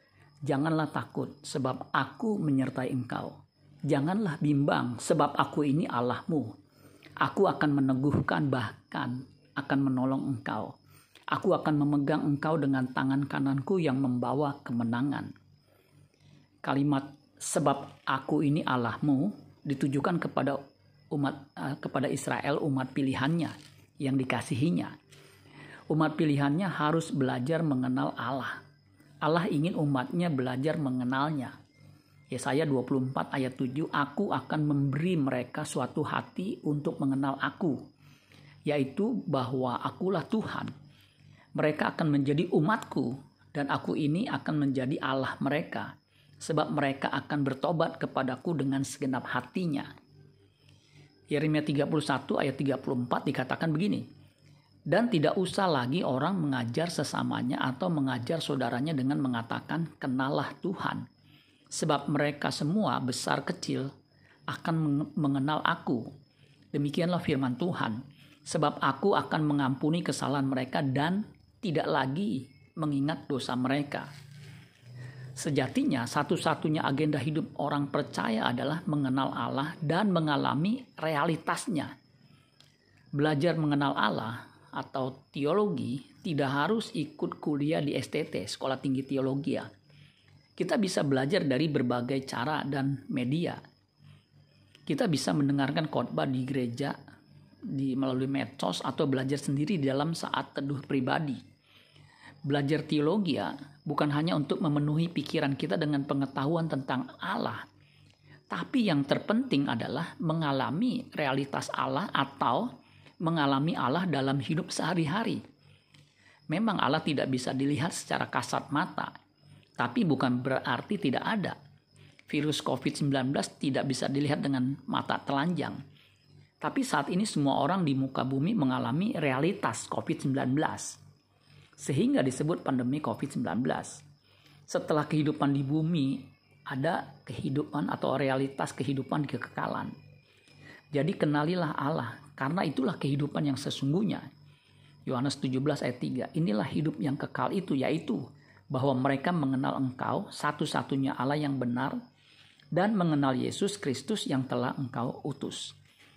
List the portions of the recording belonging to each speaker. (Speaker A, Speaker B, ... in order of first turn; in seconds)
Speaker A: 0.5-6.5, 7.2-10.8, 11.3-15.3, 16.6-20.6, 21.1-24.9, 25.9-28.6, 29.2-31.6, 32.3-37.9, 38.7-40.7, 41.5-49.9, 51.3-54.1, 54.9-61.1, 61.7-63.9, 64.5-66.1, 66.7-74.1, 75.4-81.9, 83.1-89.7, 90.6-93.6, 94.9-97.0, 97.7-101.4, 102.5-107.7, 108.5-115.4, 116.5-119.1, 119.8-121.6, 122.3-125.8, 126.6-131.0, 131.8-134.0, 134.7-139.9, 140.9-144.2, 145.1-152.0, 152.7-155.8